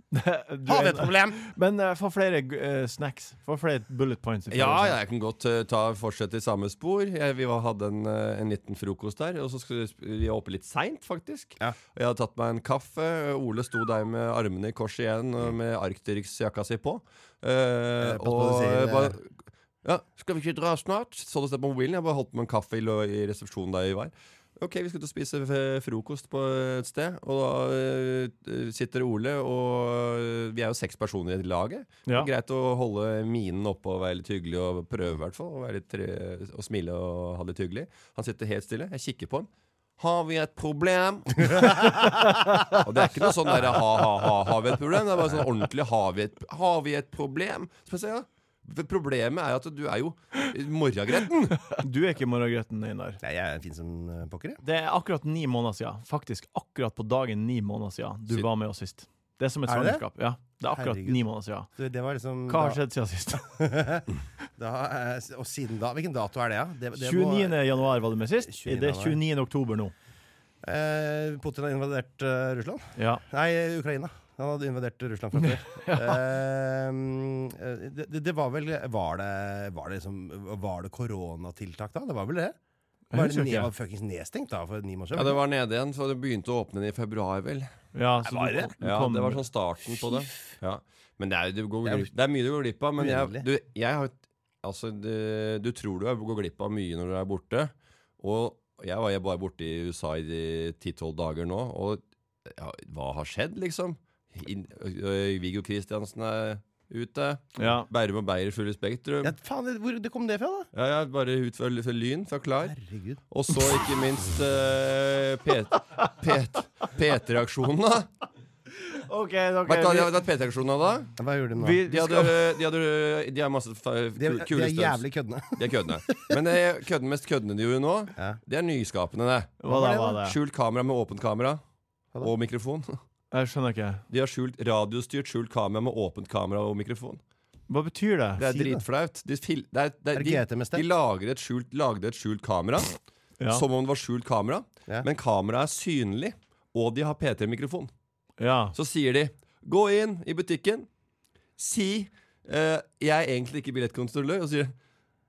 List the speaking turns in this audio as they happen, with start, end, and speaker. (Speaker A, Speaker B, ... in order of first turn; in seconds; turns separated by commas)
Speaker A: 0.1-5.0, Speaker B: 0.7-1.4, Speaker C: 4.5-42.1, Speaker B: 18.0-19.2, Speaker C: 42.7-51.7, Speaker A: 51.7-53.2, Speaker B: 53.2-54.6, Speaker A: 54.6-61.7, Speaker B: 59.7-60.1, Speaker B: 60.7-62.8, Speaker A: 62.5-63.5, Speaker B: 63.4-67.6, Speaker A: 67.0-69.9, Speaker B: 68.5-69.2, Speaker B: 70.6-82.6, Speaker A: 73.0-73.2, Speaker A: 75.4-76.2, Speaker A: 83.1-83.7, Speaker B: 83.1-85.4, Speaker C: 85.2-87.7, Speaker A: 88.0-89.4, Speaker B: 88.2-88.7, Speaker C: 88.8-109.3, Speaker B: 90.0-90.2, Speaker B: 91.8-92.1, Speaker B: 93.0-93.5, Speaker A: 107.6-107.9, Speaker B: 109.2-110.7, Speaker C: 110.7-112.8, Speaker B: 112.6-113.2, Speaker C: 113.3-118.1, Speaker A: 118.8-120.2, Speaker C: 119.7-121.1, Speaker B: 121.2-121.8, Speaker A: 121.6-122.3, Speaker C: 121.9-125.0, Speaker B: 124.2-126.4, Speaker C: 125.6-131.6, Speaker A: 129.6-130.4, Speaker B: 129.7-130.2, Speaker C: 132.2-133.0, Speaker A: 133.3-134.0, Speaker C: 134.1-137.2, Speaker A: 137.7-138.4, Speaker C: 138.4-143.0, Speaker B: 138.5-138.8, Speaker B: 140.1-140.8, Speaker C: 143.5-147.9, Speaker A: 148.4-148.8, Speaker C: 148.8-150.9, Speaker C: 151.6-154.7